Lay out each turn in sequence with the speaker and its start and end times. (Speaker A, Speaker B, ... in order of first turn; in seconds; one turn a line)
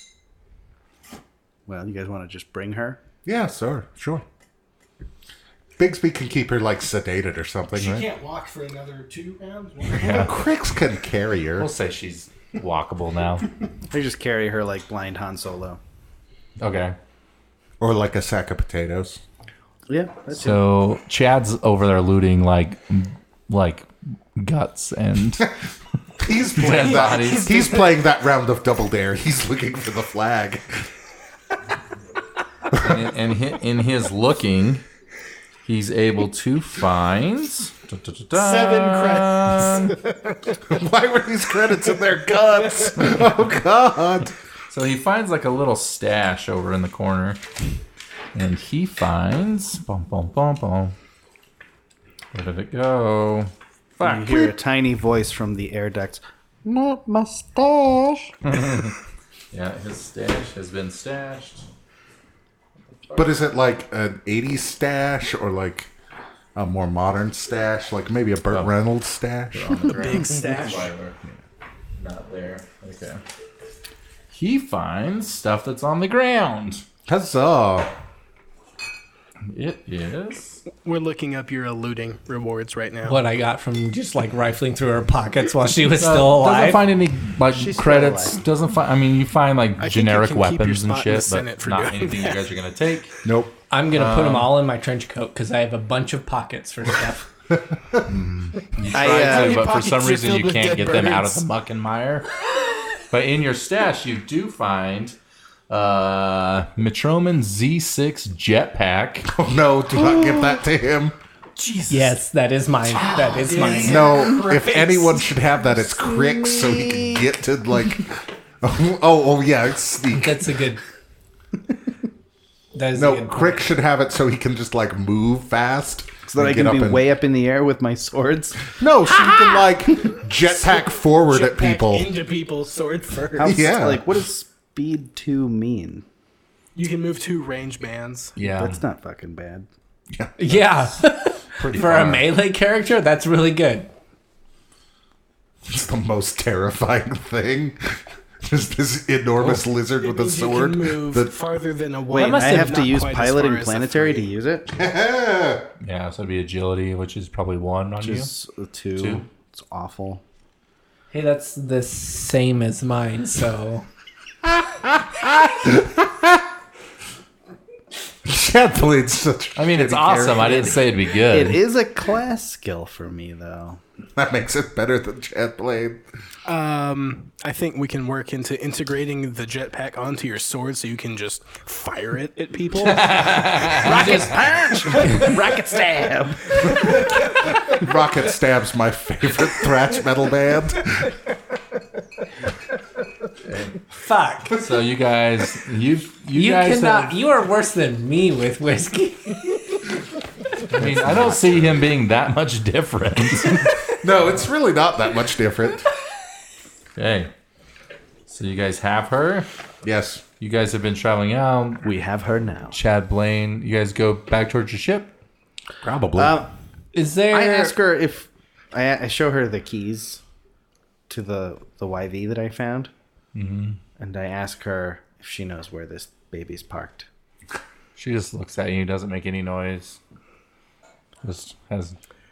Speaker A: 1.7-3.0
Speaker B: 3.2-4.2
Speaker B: 5.8-8.1
Speaker C: 7.8-10.4
Speaker B: 9.9-11.7
Speaker D: 11.6-13.4
Speaker A: 13.9-15.8
Speaker D: 16.6-16.9
Speaker B: 17.8-19.2
Speaker A: 19.9-20.6
Speaker D: 20.3-25.5
Speaker B: 26.2-30.9
Speaker D: 26.6-27.5
Speaker C: 26.7-27.9
Speaker D: 32.7-34.8
Speaker D: 35.6-40.0
Speaker C: 38.3-40.5
Speaker B: 40.6-44.3
Speaker D: 44.7-47.4
Speaker D: 48.3-50.9
Speaker D: 52.3-53.5
Speaker A: 54.0-58.3
Speaker B: 54.0-54.5
Speaker D: 58.4-58.9
Speaker D: 59.5-61.6
Speaker B: 63.1-65.9
Speaker B: 66.5-70.2
Speaker D: 69.5-71.2
Speaker C: 69.8-70.9
Speaker D: 72.0-73.2
Speaker D: 74.3-76.8
Speaker B: 77.1-77.9
Speaker D: 79.5-80.6
Speaker C: 80.7-83.2
Speaker E: 83.0-86.8
Speaker D: 86.0-93.1
Speaker A: 87.5-88.4
Speaker C: 89.8-92.4
Speaker B: 93.2-93.5
Speaker E: 93.7-97.2
Speaker D: 93.9-94.5
Speaker D: 98.1-102.3
Speaker C: 98.9-101.4
Speaker A: 98.9-99.7
Speaker D: 103.1-105.2
Speaker D: 105.7-109.3
Speaker B: 109.3-111.1
Speaker C: 111.5-112.2
Speaker E: 111.9-114.1
Speaker C: 113.1-115.4
Speaker B: 113.7-120.5
Speaker A: 116.0-117.2
Speaker E: 120.1-120.8
Speaker E: 122.7-123.7
Speaker B: 122.9-127.0
Speaker A: 126.3-128.7
Speaker B: 128.8-132.2
Speaker C: 130.7-133.7
Speaker A: 133.3-136.0
Speaker B: 133.4-134.1
Speaker C: 136.7-138.3
Speaker D: 138.4-138.8
Speaker A: 138.5-139.7
Speaker E: 140.4-143.9
Speaker D: 141.6-142.3
Speaker B: 145.7-151.3
Speaker C: 150.0-154.3
Speaker E: 152.1-152.9
Speaker A: 152.1-154.7
Speaker B: 154.7-155.7
Speaker D: 155.8-158.3
Speaker A: 158.0-160.2
Speaker D: 159.0-159.2
Speaker E: 161.1-163.8
Speaker B: 164.4-166.4
Speaker B: 168.2-170.8
Speaker D: 169.6-171.6
Speaker A: 171.2-173.8
Speaker B: 174.2-176.0
Speaker C: 176.4-184.0
Speaker D: 182.7-184.3
Speaker A: 183.7-186.7
Speaker B: 186.8-191.2
Speaker D: 193.4-193.8
Speaker E: 194.0-194.6
Speaker D: 194.5-197.2
Speaker E: 196.3-199.8
Speaker D: 200.7-203.7
Speaker B: 200.7-201.9
Speaker B: 203.9-205.8
Speaker D: 206.9-207.3
Speaker D: 208.3-209.5
Speaker B: 209.8-210.2
Speaker D: 210.4-211.9
Speaker A: 211.8-212.8
Speaker D: 212.7-215.1
Speaker B: 215.8-216.4
Speaker A: 216.2-216.5
Speaker E: 216.9-217.7
Speaker A: 217.3-220.2
Speaker A: 221.1-222.9
Speaker D: 223.3-223.8
Speaker A: 224.0-227.1
Speaker D: 227.9-230.0
Speaker D: 231.2-232.0